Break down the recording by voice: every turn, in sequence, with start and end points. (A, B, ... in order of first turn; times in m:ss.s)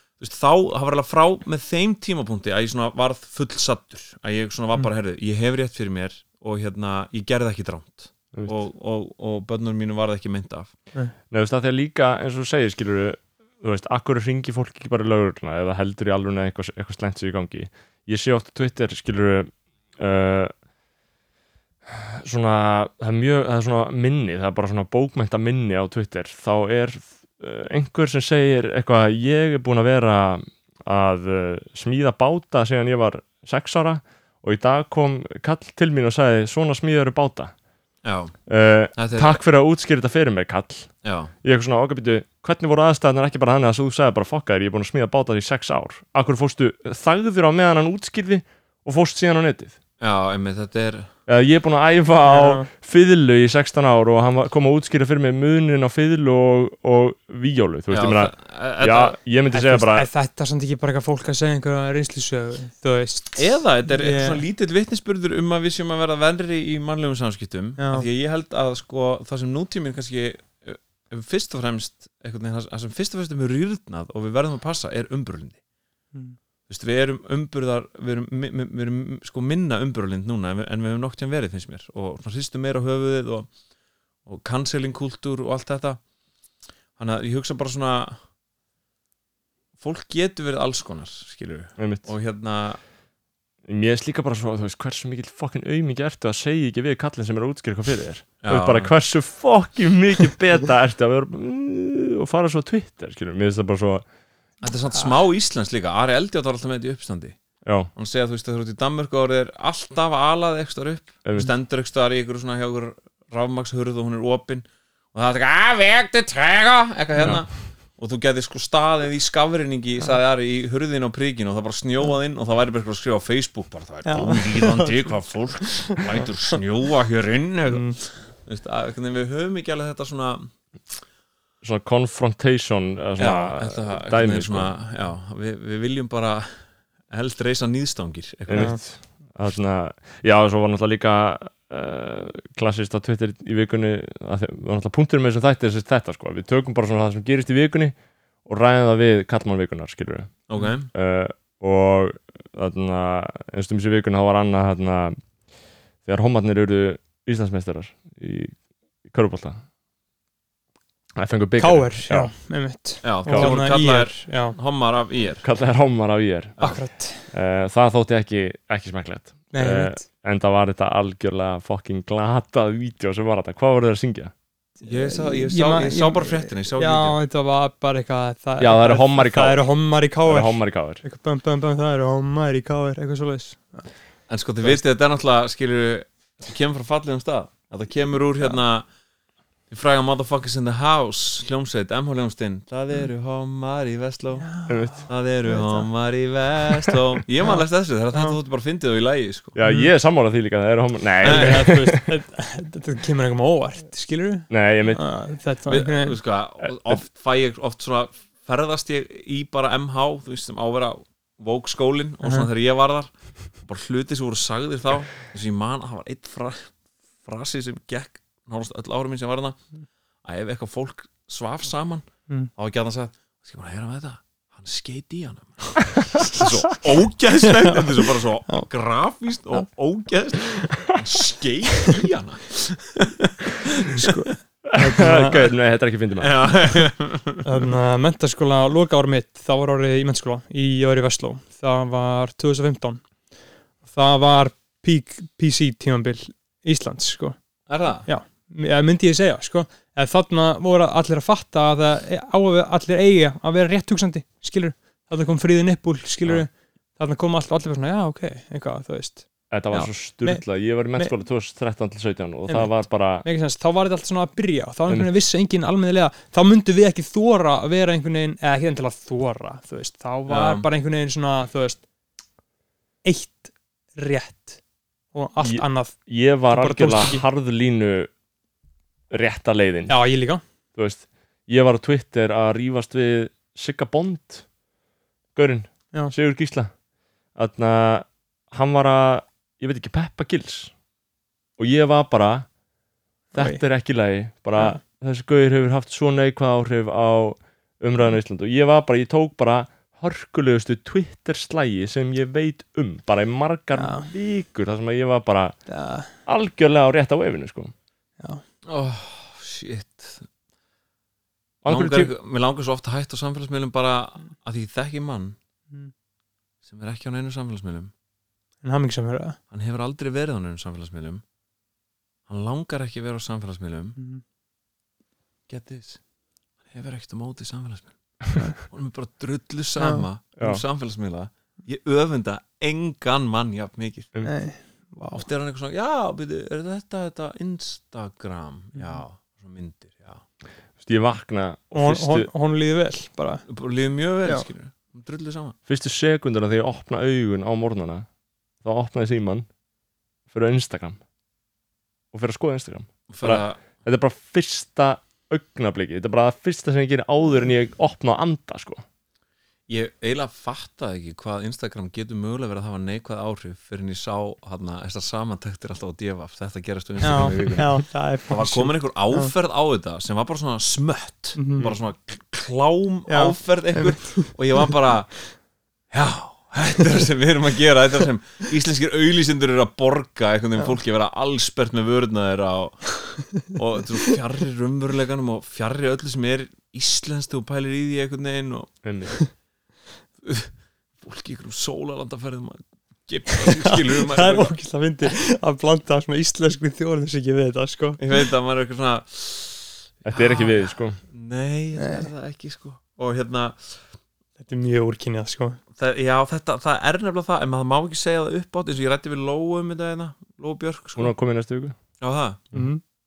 0:00.2-0:10.7 A
0:11.3-0:20.5 B
0:21.9-0:37.5 B
0:38.0-0:38.4 A
0:38.4-0:49.8 B
0:39.0-0:39.4 A
0:41.0-0:41.3 A
0:50.0-0:51.1 A
0:51.3-1:00.1 B
0:52.2-0:52.7 C
0:57.9-0:59.2 A
0:59.5-1:04.4 C
1:03.4-1:15.6 A
1:07.8-1:08.1 C
1:16.7-1:23.5 A
1:24.2-1:26.0 A
1:27.0-1:28.2 A
1:29.8-1:32.8 A
1:31.8-1:32.1 B
1:33.7-1:44.0 B
1:38.4-1:38.9 A
1:44.6-1:47.4 A
1:47.6-1:47.9 B
1:47.9-2:11.0 A
1:51.2-1:51.5 B
1:57.2-1:57.5 B
2:04.0-2:06.3 C
2:07.7-2:08.0 C
2:11.6-2:14.7 B
2:13.2-2:18.8 A
2:18.5-2:35.3 B
2:18.6-2:18.8 C
2:30.5-2:30.9 A
2:36.0-2:39.6 B
2:41.2-2:42.4 B
2:41.6-2:44.5 C
2:43.0-2:45.4 A
2:43.2-2:43.6 B
2:45.4-2:54.3 B
2:46.6-2:46.8 A
2:46.6-2:47.3 C
2:49.5-2:50.0 C
2:54.8-3:03.9 C
2:54.8-2:57.2 A
2:58.6-2:59.6 B
3:00.2-3:01.0 B
3:04.3-3:08.8 A
3:09.7-3:19.6 A
3:14.4-3:15.9 C
3:14.7-3:15.1 B
3:19.5-3:22.0 B
3:19.6-3:19.9 C
3:21.2-3:26.2 C
3:21.2-3:21.6 A
3:24.5-3:25.0 B
3:25.7-3:39.7 A
3:32.2-3:32.5 C
3:40.2-3:53.8 A
3:53.8-3:55.5 C
3:54.7-3:56.6 B
3:56.2-3:57.4 A
3:57.4-4:03.1 C
4:03.8-4:19.5 C
4:07.7-4:08.1 A
4:19.5-4:23.2 B
4:20.2-4:21.1 C
4:22.4-4:31.8 C
4:30.3-4:30.7 A
4:33.0-4:37.2 C
4:35.4-4:38.1 B
4:39.1-4:40.0 B
4:39.9-4:40.4 C
4:40.7-4:44.5 B
4:45.3-4:46.7 B
4:47.3-4:50.7 B
4:51.6-4:52.5 B
4:53.3-4:53.6 C
4:53.3-5:05.6 B
4:54.5-4:54.8 C
5:03.7-5:04.1 C
5:05.7-5:06.1 C
5:06.1-5:07.7 B
5:08.6-5:10.3 A
5:11.6-5:12.1 B
5:11.7-5:15.4 A
5:16.6-5:17.9 A
5:18.6-5:19.4 C
5:19.5-5:21.2 A
5:22.3-5:24.0 A
5:24.0-5:24.2 C
5:25.5-5:26.0 A
5:26.7-5:34.1 A
5:29.8-5:30.0 C
5:30.4-5:30.6 B
5:34.2-5:35.2 C
5:35.1-5:40.2 A
5:38.8-5:39.0 C
5:40.8-5:42.3 B
5:41.7-5:43.4 C
5:43.5-5:45.6 A
5:45.7-5:48.1 B
5:48.6-5:49.5 B
5:50.3-5:51.0 B
5:52.1-5:58.8 B
5:53.1-5:53.6 A
5:59.7-6:28.8 A
6:07.0-6:09.3 C
6:11.4-6:11.7 C
6:13.1-6:14.7 C
6:28.8-6:29.2 B
6:30.2-6:34.6 A
6:33.3-6:38.2 C
6:38.0-6:43.8 A
6:40.0-6:41.0 B
6:41.8-6:42.1 C
6:44.4-6:45.6 C
6:45.8-6:51.1 A
6:51.0-6:51.8 B
6:52.0-6:52.4 A
6:52.5-6:52.8 C